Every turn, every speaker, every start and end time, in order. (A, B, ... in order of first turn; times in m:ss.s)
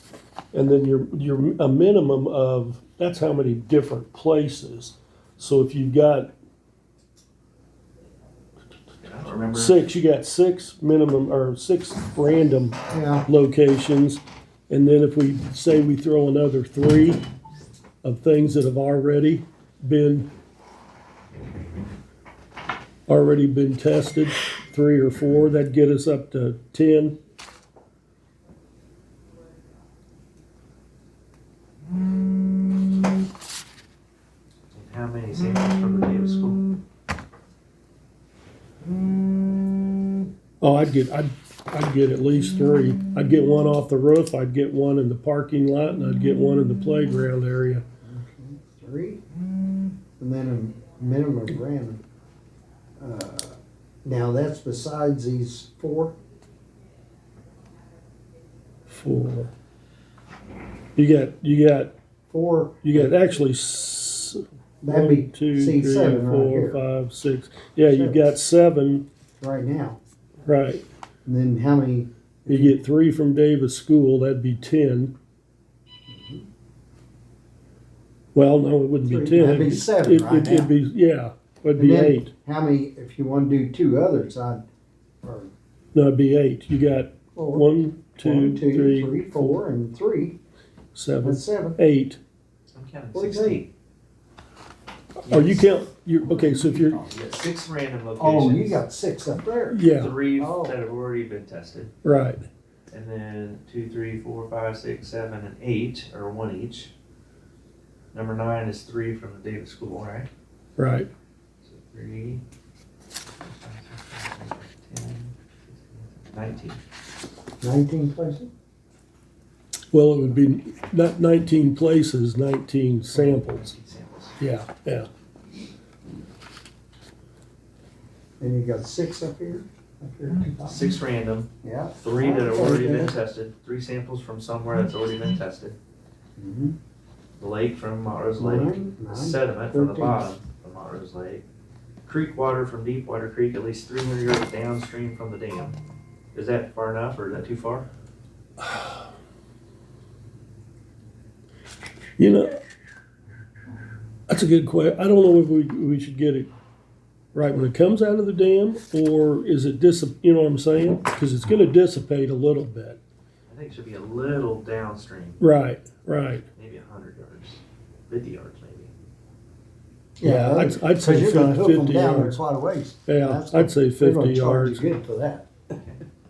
0:00.5-0:06.3 A
0:09.0-0:09.8 B
0:09.5-0:17.2 A
0:12.9-0:13.2 C
0:18.0-0:20.3 A
0:23.1-0:27.2 A
0:34.7-0:36.6 B
0:40.6-0:47.8 A
0:48.0-0:49.2 C
0:50.2-0:52.0 C
0:53.0-0:56.2 C
0:58.9-0:59.5 A
1:01.0-1:01.9 A
1:02.3-1:03.2 C
1:02.8-1:09.0 A
1:04.8-1:06.8 C
1:07.9-1:08.2 C
1:09.4-1:10.0 C
1:10.4-1:10.8 A
1:11.2-1:12.8 C
1:12.5-1:15.1 A
1:16.1-1:16.4 C
1:18.3-1:22.3 A
1:19.0-1:20.7 C
1:21.8-1:24.6 C
1:25.2-1:25.5 C
1:25.9-1:29.6 A
1:27.3-1:27.7 C
1:28.2-1:30.4 C
1:30.9-1:32.2 A
1:31.2-1:31.8 C
1:32.7-1:33.7 B
1:33.1-1:33.6 C
1:35.2-1:35.7 B
1:35.3-1:37.0 A
1:36.8-1:38.8 B
1:38.2-1:39.8 C
1:39.7-1:40.2 A
1:39.9-1:41.9 B
1:40.4-1:40.8 C
1:42.0-1:42.4 A
1:42.9-1:46.9 B
1:48.1-1:50.3 B
1:50.8-1:51.1 A
1:51.6-1:52.4 B
1:53.4-1:56.8 B
1:57.6-1:58.5 C
1:59.9-2:03.6 A
2:03.1-2:04.4 B
2:04.4-2:05.1 A
2:08.4-2:10.9 C
2:10.6-2:11.5 B
2:11.6-2:13.1 C
2:12.0-2:15.8 B
2:16.4-2:16.8 C
2:17.4-2:21.4 B
2:18.4-2:20.3 C
2:22.0-2:25.8 B
2:26.3-2:27.9 B
2:32.2-2:32.6 A
2:34.3-2:36.5 A
2:37.3-2:43.0 A
2:43.5-2:45.4 B
2:45.4-2:46.4 A
2:46.6-2:48.9 B
2:50.2-2:55.4 C
2:50.2-2:52.4 A
2:53.1-2:54.8 A
2:55.7-2:56.0 B